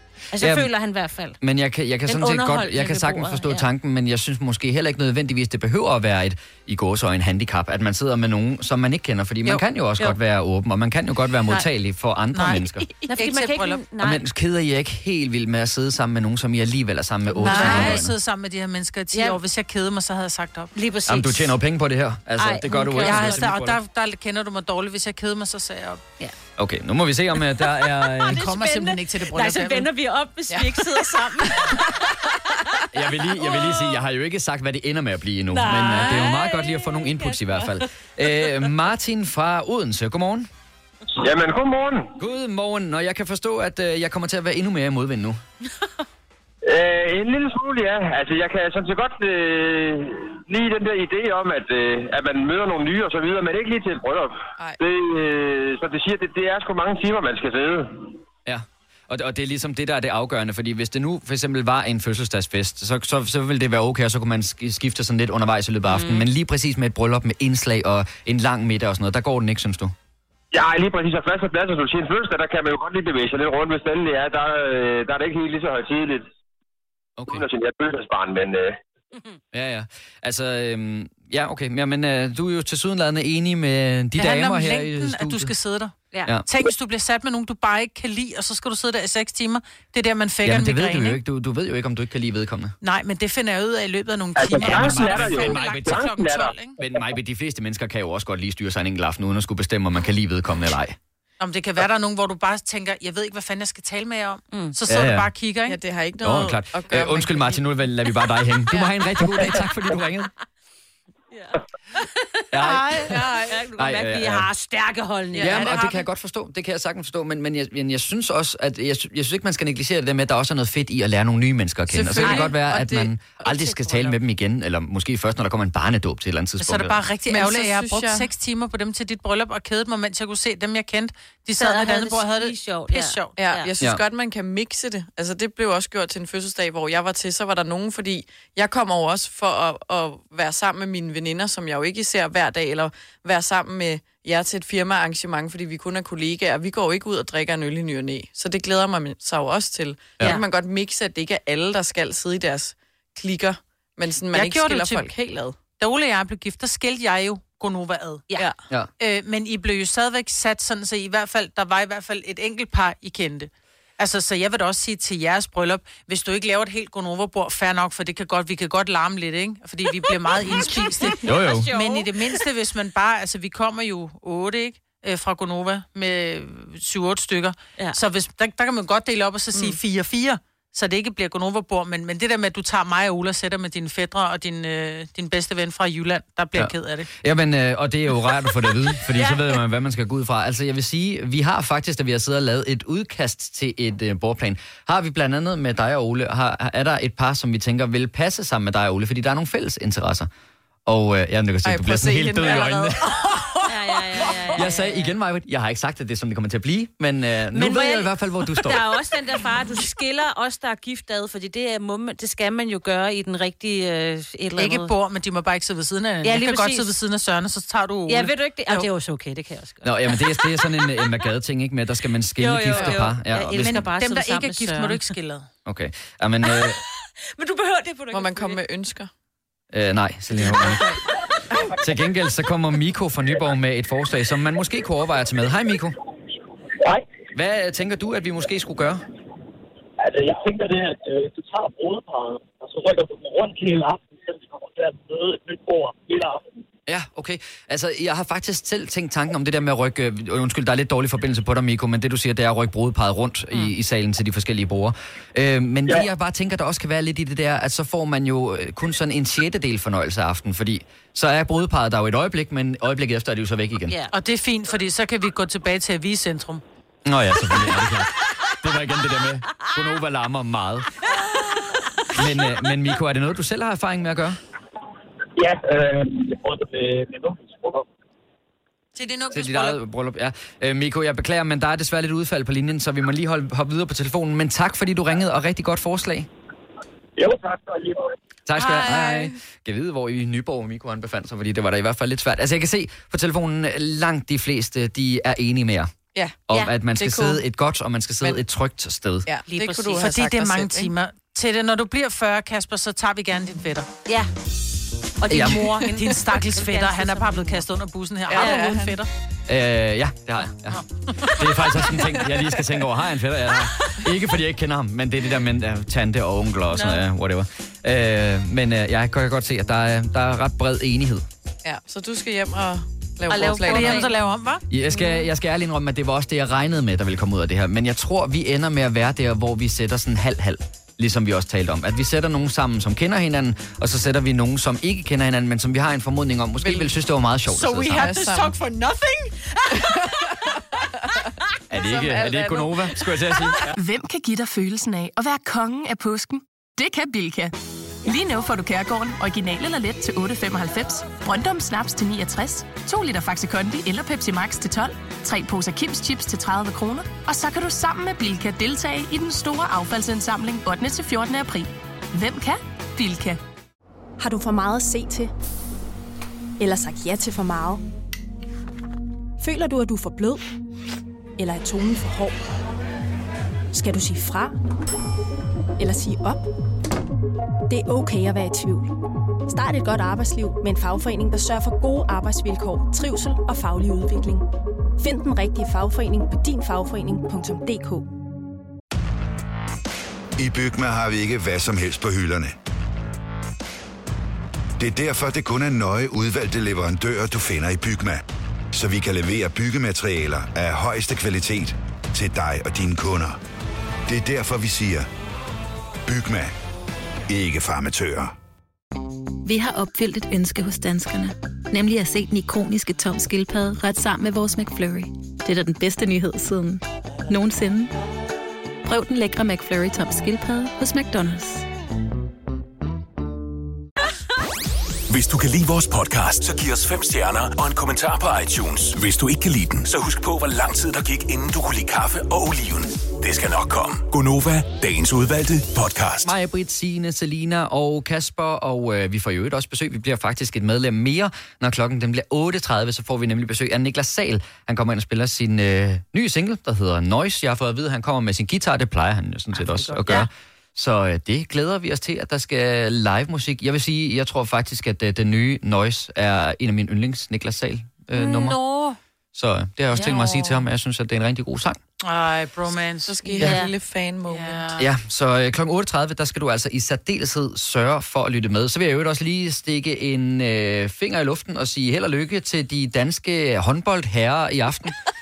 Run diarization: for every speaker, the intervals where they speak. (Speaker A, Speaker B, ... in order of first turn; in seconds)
Speaker A: 0.3-1.4, 2.1-3.6, 13.1-14.2, 17.4-18.0, 19.1-19.4, 20.8-21.5, 22.4-23.5, 27.6-32.8, 33.4-34.0, 35.5-37.8, 65.9-66.2, 111.3-112.4, 113.0-116.0, 122.2-122.5, 131.6-133.7, 170.4-172.4, 189.1-189.5, 203.6-205.1, 207.5-214.9, 216.2-216.9, 218.1-220.6, 222.4-225.1, 226.4-226.8, 227.3-228.6, 305.2-307.6, 308.4-308.8, 316.7-317.0, 323.3-324.1, 449.6-450.3, 458.1-458.9, 463.4-463.7
Speaker B: 0.4-0.7, 1.4-12.8, 14.0-18.1, 21.1-23.8, 26.6-28.5, 32.9-40.5, 42.2-45.4, 58.5-69.9, 77.2-77.4, 79.5-85.5, 90.4-92.7, 94.5-96.0, 96.8-101.0, 104.9-105.3, 106.2-110.3, 112.5-113.2, 113.8-114.5, 115.4-127.0, 171.2-171.7, 186.5-200.3, 200.8-203.1, 204.5-208.8, 219.8-223.8, 225.7-226.8, 229.7-230.9, 231.8-235.9, 237.3-239.0, 246.9-263.9, 267.0-270.9, 272.1-274.4, 279.3-286.3, 288.5-295.9, 296.5-299.3, 305.3-305.8, 309.5-321.2, 324.7-338.2, 341.7-343.8, 436.2-458.6, 459.3-461.8, 464.8-474.9
Speaker C: 12.3-13.8, 17.4-20.7, 23.0-26.0, 28.2-29.9, 84.2-85.9, 86.5-91.2, 92.8-96.8, 101.4-105.8, 126.6-133.4, 154.3-155.1, 155.8-158.2, 159.0-187.1, 214.6-218.9, 223.6-225.5, 264.1-266.6, 278.9-279.8, 288.6-289.2, 299.5-303.9, 305.3-309.1, 323.3-324.6, 337.6-339.3, 462.0-463.7, 464.3-464.8
Speaker D: 41.1-42.1, 46.6-58.1, 70.5-76.3, 77.3-78.8, 94.4-96.5
Speaker E: 105.7-107.6, 113.0-113.5, 115.4-115.7, 121.9-123.1, 127.3-128.3, 133.4-155.6, 201.6-203.6, 228.1-229.1, 288.8-289.2, 296.9-297.4, 299.2-300.9, 308.3-308.9, 321.6-324.1, 336.6-336.9, 337.9-338.6, 339.7-340.2, 341.7-343.6, 463.1-464.8
Speaker F: 240.0-246.4, 275.4-277.8, 287.2-288.1
Speaker G: 343.7-347.5, 348.0-363.4
Speaker H: 364.2-365.3, 366.6-367.8, 369.4-370.4, 371.4-372.4, 373.7-374.5, 375.8-376.4, 377.7-378.9, 379.5-384.4, 385.0-388.0
Speaker I: 390.4-392.5, 394.8-398.2, 398.7-403.4, 404.1-405.1, 406.1-406.5, 407.3-408.3
Speaker J: 409.4-417.9, 418.8-421.6
Speaker K: 425.1-436.3